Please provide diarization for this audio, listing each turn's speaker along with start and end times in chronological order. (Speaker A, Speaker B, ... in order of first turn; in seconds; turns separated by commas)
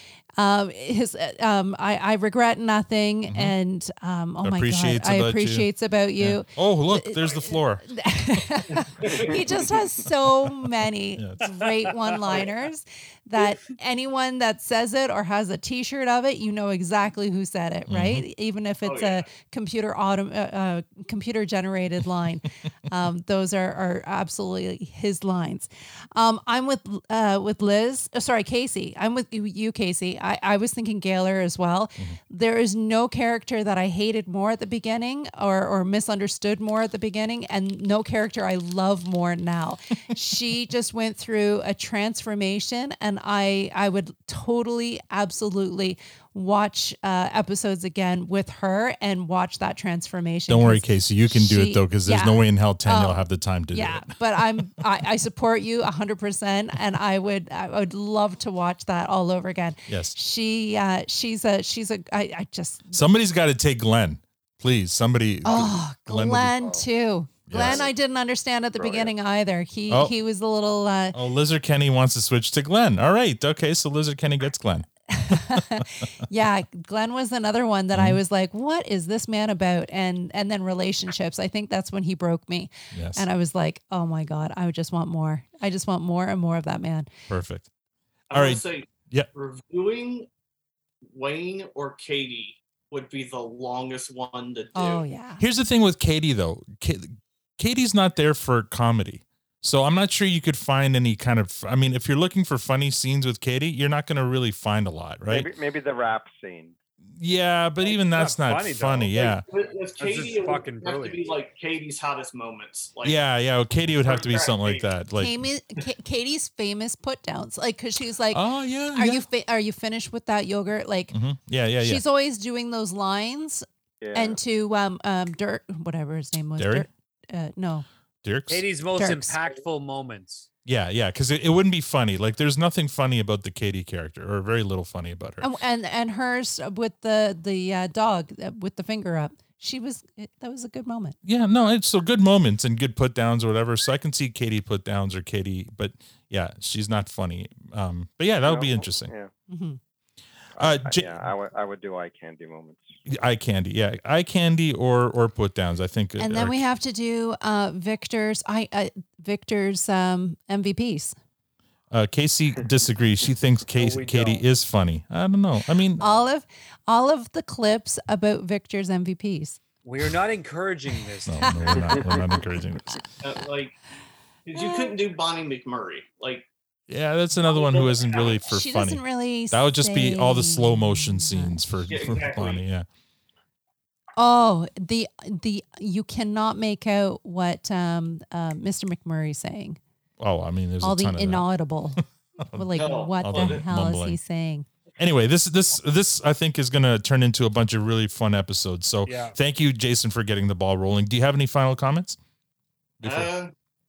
Speaker A: 0.4-63.0, Speaker B: 3.3-3.5, Speaker B: 4.4-5.7, Speaker B: 6.2-7.8, Speaker C: 9.0-9.5, Speaker B: 11.2-11.4, Speaker B: 17.9-18.2, Speaker C: 18.8-19.3, Speaker B: 50.5-54.4, Speaker B: 59.9-60.1, Speaker B: 62.9-66.6, Speaker A: 65.4-71.2, Speaker D: 66.6-66.8, Speaker B: 67.5-67.8, Speaker D: 67.5-67.9, Speaker D: 68.7-69.1, Speaker B: 71.1-74.8, Speaker A: 75.1-87.1, Speaker B: 77.9-78.2, Speaker B: 82.9-83.3, Speaker B: 87.3-87.7, Speaker C: 88.3-90.3, Speaker B: 88.3-89.3, Speaker C: 91.0-95.0, Speaker A: 94.7-95.4, Speaker B: 95.4-105.5, Speaker D: 105.3-106.8, Speaker B: 107.2-109.4, Speaker E: 107.8-109.3, Speaker C: 109.3-113.2, Speaker E: 110.0-111.2, Speaker B: 113.0-115.4, Speaker C: 114.0-114.9, Speaker A: 115.2-118.4, Speaker B: 118.3-119.2, Speaker A: 118.9-121.1, Speaker B: 121.1-122.0, Speaker A: 121.8-127.8, Speaker D: 124.0-124.4, Speaker B: 126.6-126.9, Speaker B: 128.2-128.6, Speaker E: 128.5-130.5, Speaker A: 128.9-129.4, Speaker B: 130.6-135.5, Speaker A: 135.4-141.2, Speaker B: 141.2-149.1, Speaker D: 148.4-149.3, Speaker A: 149.5-149.8, Speaker D: 150.6-153.0, Speaker B: 150.6-151.2, Speaker B: 153.1-156.6, Speaker A: 156.2-161.2, Speaker B: 161.9-166.1, Speaker E: 163.8-164.4, Speaker A: 166.0-169.6, Speaker E: 169.8-171.8, Speaker B: 171.3-173.0, Speaker A: 171.5-172.4, Speaker C: 173.2-173.7, Speaker C: 174.5-176.4, Speaker A: 174.5-174.9, Speaker B: 176.9-182.8, Speaker C: 177.5-178.6, Speaker A: 178.5-181.6, Speaker C: 181.9-182.6, Speaker A: 184.2-189.8, Speaker B: 190.2-191.4, Speaker A: 190.8-192.0, Speaker B: 192.5-194.2, Speaker A: 192.5-194.7, Speaker C: 192.8-193.6, Speaker B: 195.0-202.2, Speaker E: 199.1-199.3, Speaker B: 203.0-203.3, Speaker C: 203.0-203.5